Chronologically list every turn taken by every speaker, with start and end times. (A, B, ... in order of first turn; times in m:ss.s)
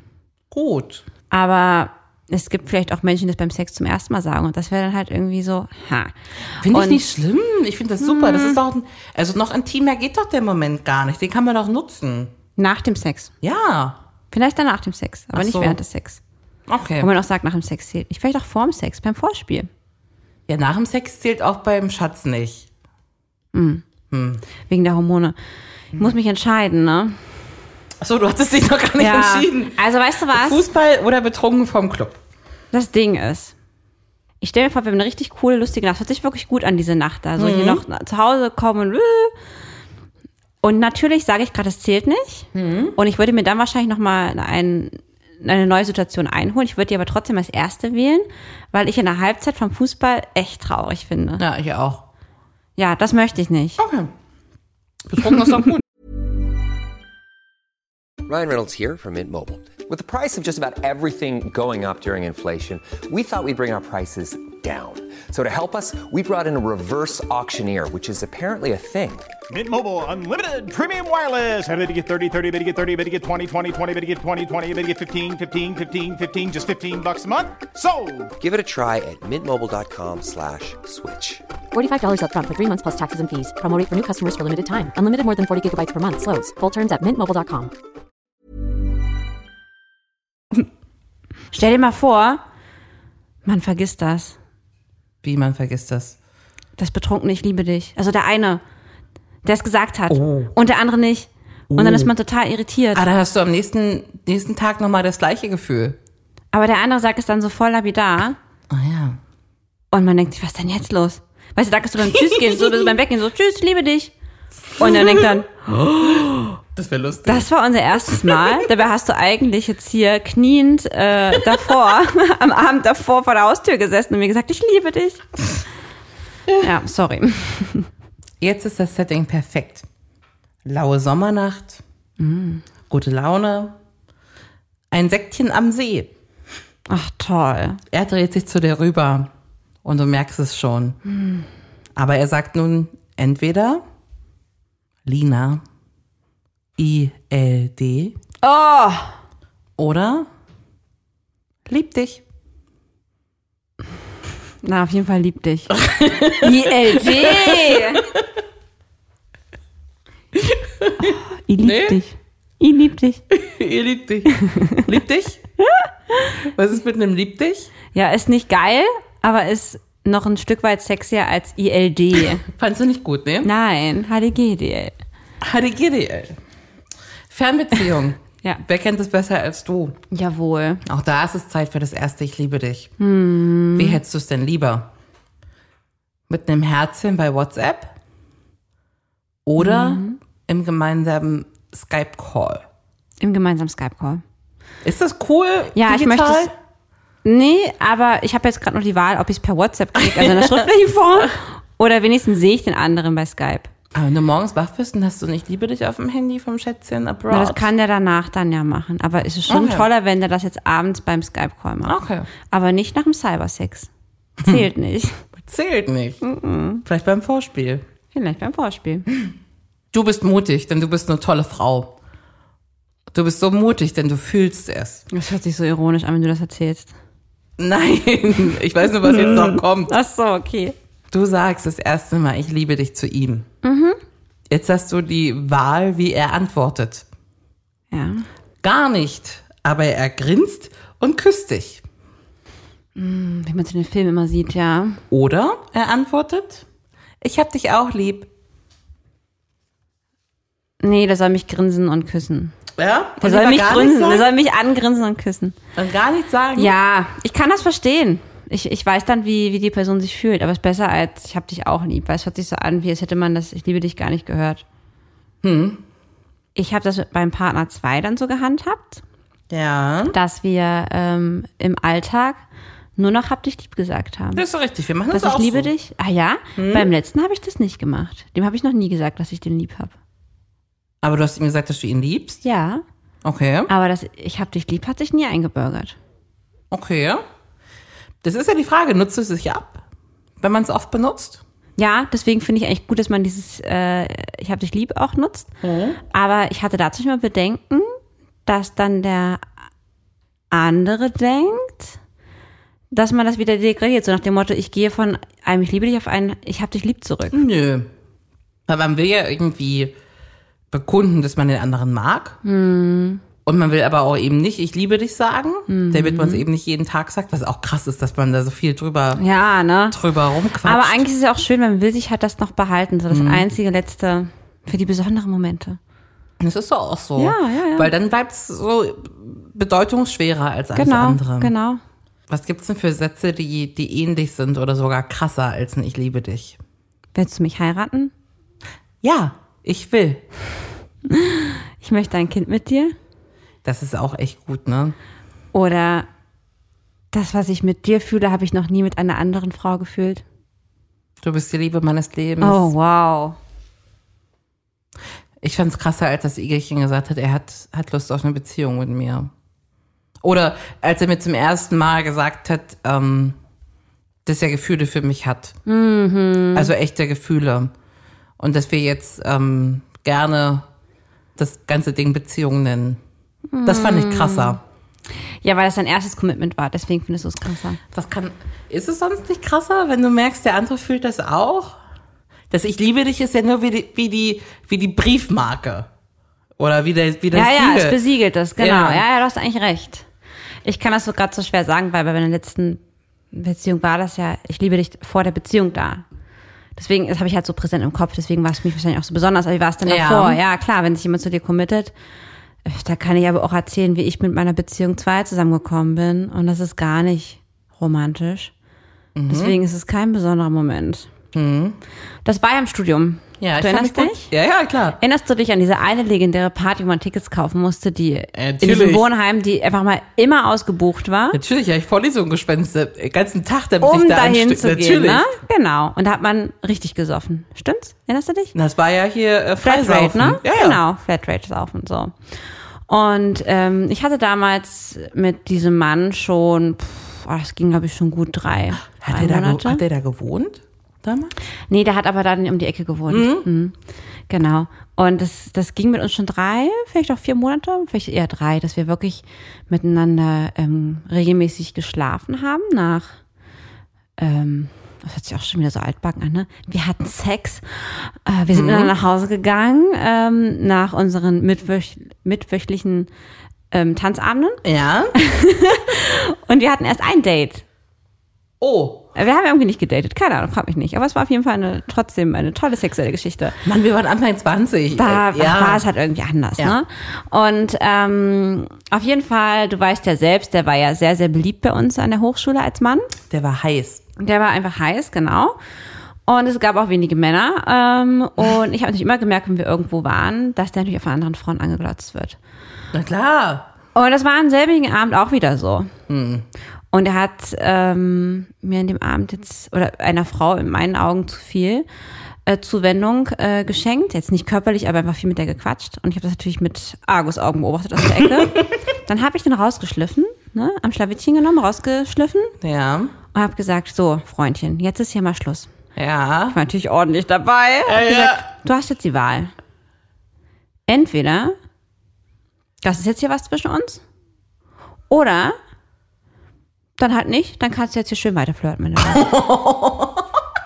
0:00.5-0:01.1 A
0:01.3-0:07.1 B
0:06.6-0:12.3 A
0:08.0-0:08.6 B
0:12.6-0:13.3 B
0:13.4-0:14.0 A
0:14.3-0:16.2 B
0:15.3-0:15.8 A
0:16.7-0:17.1 A
0:17.0-0:19.7 B
0:20.5-0:22.7 A
0:23.5-0:23.8 B
0:24.1-0:24.4 A
0:24.7-0:25.4 B
0:25.9-0:27.2 B
0:28.0-0:29.8 A
0:29.0-0:30.6 B
0:30.3-0:32.2 A
0:32.7-0:33.5 B
0:34.4-0:39.3 B
0:37.4-0:37.8 A
0:40.6-0:51.4 B
0:42.5-0:43.0 A
0:51.4-0:52.0 A
0:52.8-0:53.8 B
0:53.8-0:54.1 A
0:55.1-0:55.8 A
0:58.3-1:09.3 C
1:09.5-1:18.3 D
1:18.4-1:21.4 C
1:21.7-1:27.7 E
1:31.5-1:32.4 B
1:33.4-1:34.4 B
1:35.2-1:36.2 A
1:36.8-1:38.6 B
1:39.4-1:43.0 B
1:40.1-1:40.5 A
1:41.7-1:42.1 A
1:42.9-1:46.0 A
1:46.5-1:48.4 B
1:48.7-1:49.2 A
1:49.9-1:54.1 B
1:52.1-1:52.9 A
1:54.8-1:56.5 B
1:54.8-1:55.4 A
1:56.0-1:57.5 A
1:57.2-2:05.2 B
1:58.2-1:58.5 A
2:06.6-2:07.9 B
2:08.4-2:09.9 A
2:10.6-2:11.8 A
2:12.2-2:12.7 B
2:12.9-2:13.8 A
2:14.9-2:16.1 A
2:16.9-2:17.8 B
2:17.9-2:19.3 A
2:19.8-2:21.0 A
2:21.1-2:21.5 B
2:22.0-2:23.8 A
2:25.1-2:25.6 A
2:26.8-2:28.2 A
2:28.4-2:29.1 B
2:29.8-2:30.3 A
2:31.7-2:32.2 A
2:34.6-2:38.0 B
2:35.7-2:38.3 A
2:40.4-2:42.0 A
2:41.0-2:43.2 B
2:43.3-2:45.4 A
2:44.3-2:44.8 B
2:45.8-2:46.3 B
2:46.5-2:47.7 A
2:47.9-2:52.4 B
2:52.4-2:53.5 A
2:53.4-2:54.9 B
2:55.4-2:56.4 A
2:57.3-3:00.0 A
3:00.1-3:00.8 B
3:00.8-3:02.9 A
3:03.0-3:04.0 B
3:03.8-3:04.9 A
3:06.3-3:07.9 A
3:09.5-3:12.6 A
3:09.6-3:10.2 B
3:13.2-3:14.2 B
3:14.8-3:16.5 A
3:15.8-3:16.5 B
3:17.2-3:23.7 B
3:20.0-3:20.7 A
3:23.9-3:27.7 A
3:27.3-3:32.0 B
3:29.5-3:29.9 A
3:31.9-3:32.3 A
3:32.5-3:33.9 B
3:34.4-3:34.7 A
3:34.4-3:35.2 B
3:35.4-3:36.2 A
3:36.2-3:36.8 B
3:36.8-3:37.8 A
3:38.1-3:39.1 B
3:39.9-3:42.0 A
3:43.1-3:45.1 A
3:45.1-3:46.9 B
3:47.6-3:49.9 A
3:49.0-3:50.8 B
3:51.1-3:53.5 A
3:53.6-3:54.0 B
3:54.5-3:57.1 A
3:57.9-3:58.3 B
3:58.6-4:01.8 A
4:03.0-4:05.0 B
4:05.1-4:06.6 A
4:07.2-4:08.3 A
4:10.8-4:12.6 B
4:12.8-4:14.3 A
4:13.2-4:15.6 B
4:15.8-4:16.7 A
4:16.6-4:24.6 B
4:25.4-4:25.8 A
4:26.6-4:29.0 B
4:29.5-4:30.2 A
4:30.1-4:32.4 B
4:33.0-4:34.4 B
4:34.3-4:35.7 A
4:35.1-4:40.0 B
4:36.6-4:36.9 A
4:41.0-4:42.4 A
4:42.4-4:42.8 B
4:43.2-4:43.7 A
4:43.7-4:46.0 B
4:46.7-4:47.2 A
4:48.2-4:49.8 A
4:50.4-4:51.4 A
4:51.8-4:55.5 B
4:55.6-4:56.0 A
4:56.1-4:58.0 B
4:58.5-4:59.4 B
5:00.5-5:02.0 B
5:02.9-5:07.4 B
5:07.3-5:07.9 A
5:08.7-5:10.0 A
5:10.7-5:12.4 A
5:12.4-5:13.2 B
5:13.5-5:19.2 A
5:15.7-5:16.4 B
5:19.2-5:20.0 B
5:19.9-5:21.1 A
5:20.6-5:25.8 B
5:23.1-5:23.5 A
5:26.4-5:31.5 A
5:27.2-5:27.9 B
5:30.8-5:31.8 B
5:32.3-5:36.6 A
5:37.2-5:38.1 B
5:39.0-5:40.2 A
5:41.1-5:43.0 B
5:43.6-5:45.0 A
5:45.5-5:46.1 B
5:47.1-5:50.2 B
5:51.2-5:52.7 A
5:52.4-5:53.4 B
5:55.4-5:59.3 A
6:00.2-6:03.4 A
6:04.2-6:05.6 A
6:05.7-6:06.7 B
6:06.6-6:07.7 A
6:08.4-6:10.7 A
6:11.4-6:13.0 A
6:13.5-6:14.6 B
6:13.6-6:14.6 A
6:15.4-6:17.8 B
6:17.9-6:21.8 A
6:22.5-6:25.9 A
6:26.6-6:28.0 A
6:27.3-6:30.1 B
6:28.6-6:29.0 A
6:30.6-6:32.8 B
6:33.3-6:36.0 B
6:36.8-6:41.9 B
6:39.8-6:40.4 A
6:42.6-6:48.5 B
6:49.2-6:49.6 A
6:49.3-6:51.1 B
6:51.3-6:51.8 A
6:52.2-6:54.3 B
6:53.4-6:55.0 A
6:55.0-7:01.4 B
6:58.4-6:59.1 A
7:01.3-7:05.3 A
7:03.8-7:08.5 B
7:08.5-7:10.8 A
7:09.6-7:12.2 B
7:12.9-7:19.8 B
7:18.8-7:21.4 A
7:21.7-7:23.8 B
7:23.1-7:23.5 A
7:24.3-7:33.2 B
7:34.2-7:43.1 B
7:38.5-7:38.9 A
7:43.7-7:44.6 B
7:44.6-7:45.2 A
7:45.2-7:47.6 B
7:48.6-7:49.1 A
7:49.2-7:53.6 B
7:53.6-7:55.8 A
7:55.0-8:03.1 B
8:03.3-8:04.0 A
8:04.2-8:05.6 B
8:06.3-8:12.4 B
8:12.9-8:13.7 A
8:14.0-8:15.9 B
8:16.1-8:16.5 A
8:16.9-8:21.9 B
8:22.5-8:32.5 B
8:28.0-8:28.7 A
8:32.6-8:33.2 A
8:33.3-8:35.7 B
8:36.0-8:36.6 A
8:36.5-8:39.5 B
8:37.9-8:38.5 A
8:40.9-8:41.6 B
8:42.8-8:44.0 B
8:45.1-8:45.6 B
8:47.0-8:49.3 B
8:49.0-8:50.3 A